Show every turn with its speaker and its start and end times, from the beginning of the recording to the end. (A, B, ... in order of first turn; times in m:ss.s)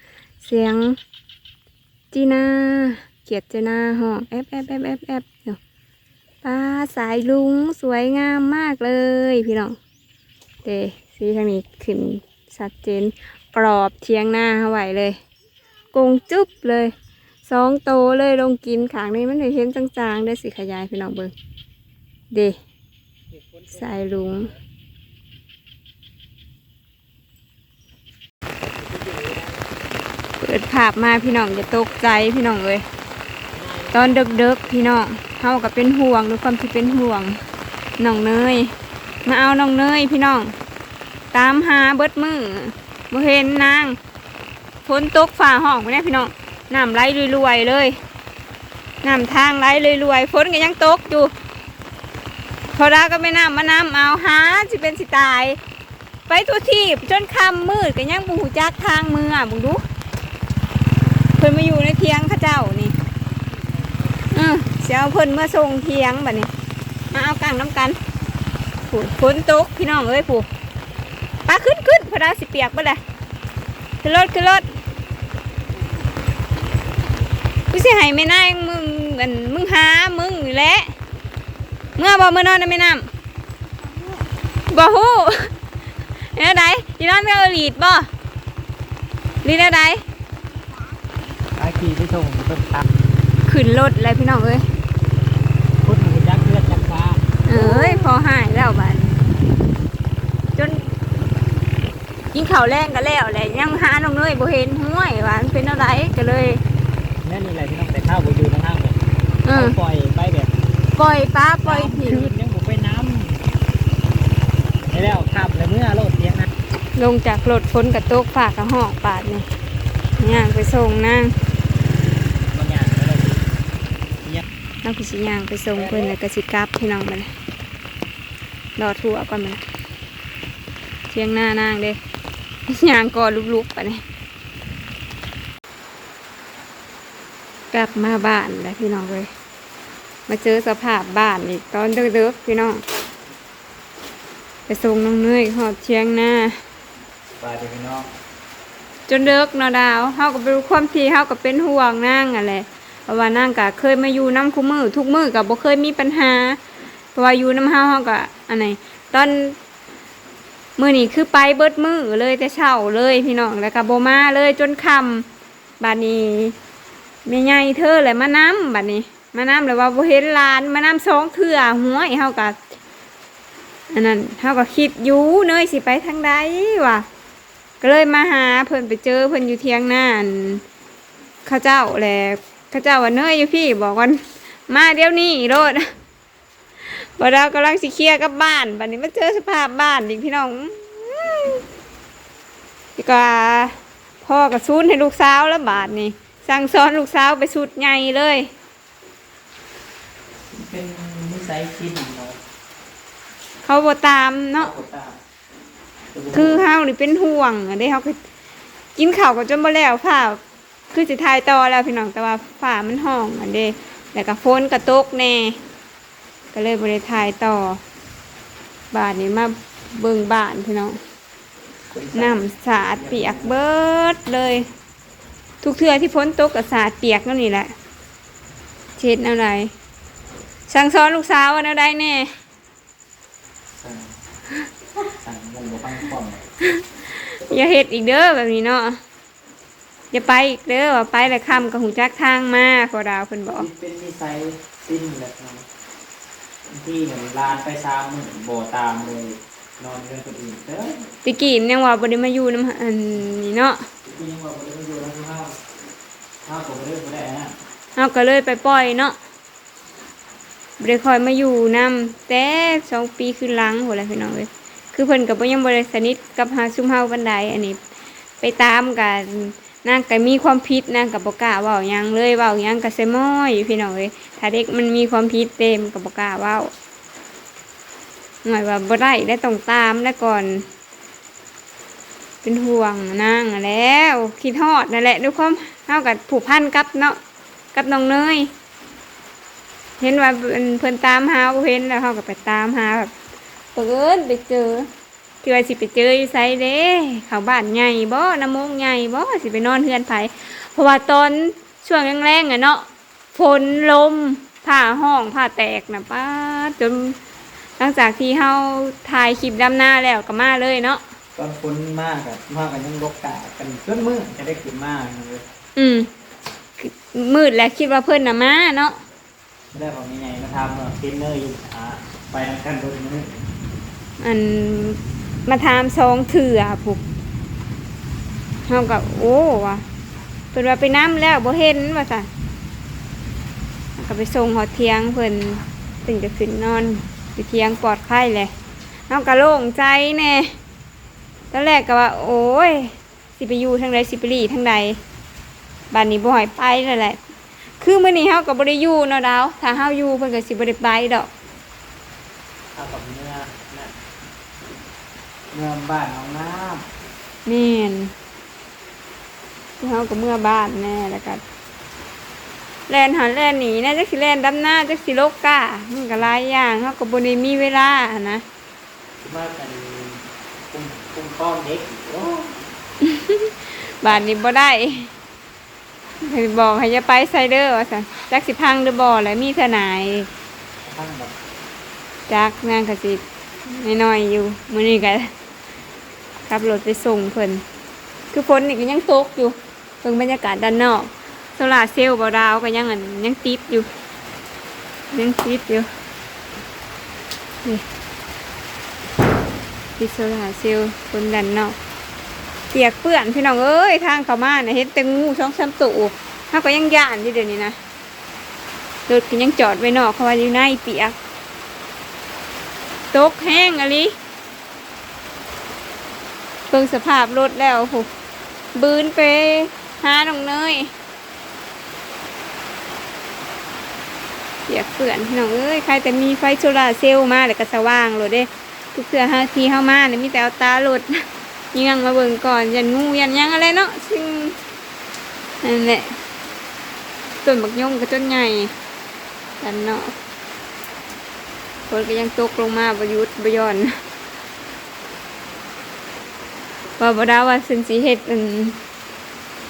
0:00.4-0:01.0 A
0:02.1-0:05.6 A
0:06.4-0:09.8 A
0:10.6-0:15.2 A
0:15.9-0:16.9 A
0:17.5-0:21.3 A
0:23.7-0:24.5 A
0:30.4-0:32.8 A
0:33.9-0:37.4 A
0:38.0-0:38.7 A
0:39.2-0:40.5 A
0:41.3-0:44.0 A
0:44.8-0:48.0 A
0:49.0-0:51.3 A
0:52.7-0:55.6 A
0:56.3-0:59.8 A
1:01.4-1:03.0 A
1:04.3-1:06.5 A
1:07.1-1:08.0 A
1:08.9-1:10.5 A
1:11.5-1:13.0 A
1:14.0-1:14.7 A
1:17.7-1:20.9 A
1:22.0-1:23.1 A
1:24.7-1:25.5 A
1:26.3-1:28.1 A
1:29.4-1:30.0 A
1:31.6-1:32.8 B
1:33.5-1:34.6 A
1:35.8-1:37.9 B
1:37.5-1:39.2 A
1:40.6-1:40.8 A
1:42.3-1:46.6 A
1:47.2-1:49.0 B
1:49.4-1:49.8 A
1:49.5-1:50.6 B
1:51.0-1:52.3 A
1:51.6-1:53.4 B
1:54.9-1:56.5 B
1:57.0-1:59.5 A
2:00.2-2:01.4 A
2:02.5-2:03.4 B
2:04.8-2:07.3 A
2:05.8-2:06.1 B
2:08.8-2:09.6 A
2:11.1-2:12.0 A
2:12.7-2:14.0 A
2:17.7-2:19.3 A
2:20.3-2:22.8 A
2:24.7-2:26.6 A
2:27.4-2:28.1 B
2:29.1-2:36.6 A
2:37.2-2:39.6 A
2:40.8-2:45.3 A
2:45.8-2:46.6 A
2:47.2-2:52.6 A
2:53.9-2:57.1 A
2:57.8-3:00.6 A
3:01.4-3:05.9 A
3:06.8-3:11.6 A
3:13.0-3:18.5 A
3:20.5-3:22.4 B
3:23.6-3:24.7 A
3:24.6-3:25.2 B
3:26.1-3:26.7 B
3:26.3-3:28.2 A
3:29.0-3:30.4 A
3:30.9-3:35.6 A
3:36.5-3:37.8 A
3:38.9-3:41.0 A
3:41.9-3:43.6 B
3:42.1-3:44.7 A
3:45.6-3:47.7 A
3:49.0-3:49.7 A
3:50.7-3:52.3 A
3:53.7-3:54.1 B
3:55.2-3:56.4 B
3:56.8-3:59.0 A
4:00.1-4:03.7 A
4:03.6-4:05.6 B
4:06.7-4:11.0 B
4:11.2-4:13.8 A
4:14.0-4:15.6 B
4:16.4-4:17.6 B
4:18.0-4:19.2 A
4:20.8-4:27.8 A
4:28.4-4:36.7 A
4:38.4-4:40.6 A
4:42.4-4:47.2 A
4:47.7-4:48.5 A
4:50.0-4:53.1 A
4:53.8-4:54.9 A
4:55.4-5:07.2 A
5:07.8-5:11.0 A
5:11.4-5:15.4 B
5:15.8-5:16.1 A
5:16.8-5:19.0 A
5:19.7-5:23.3 B
5:24.2-5:27.0 A
5:28.7-5:29.8 A
5:30.5-5:32.3 A
5:34.0-5:38.5 A
5:39.1-5:40.6 A
5:41.5-5:45.0 A
5:45.9-5:47.2 A
5:47.8-5:51.3 A
5:52.8-5:53.9 B
5:55.5-5:56.8 B
5:57.4-5:58.1 A
5:59.8-6:01.4 A
6:02.9-6:08.4 A
6:09.2-6:12.6 B
6:13.0-6:15.1 A
6:16.2-6:20.3 A
6:20.8-6:21.4 B
6:22.3-6:25.3 A
6:26.5-6:27.6 A
6:28.3-6:33.9 A
6:35.1-6:35.9 A
6:40.0-6:41.8 A
6:42.7-6:47.8 A
6:49.1-6:51.2 A
6:53.1-6:54.2 A
6:56.7-6:58.1 A
6:58.8-7:00.9 A
7:04.7-7:14.6 A
7:15.6-7:16.2 A
7:17.4-7:18.7 A
7:19.6-7:20.1 A
7:21.9-7:23.9 A
7:27.0-7:28.8 A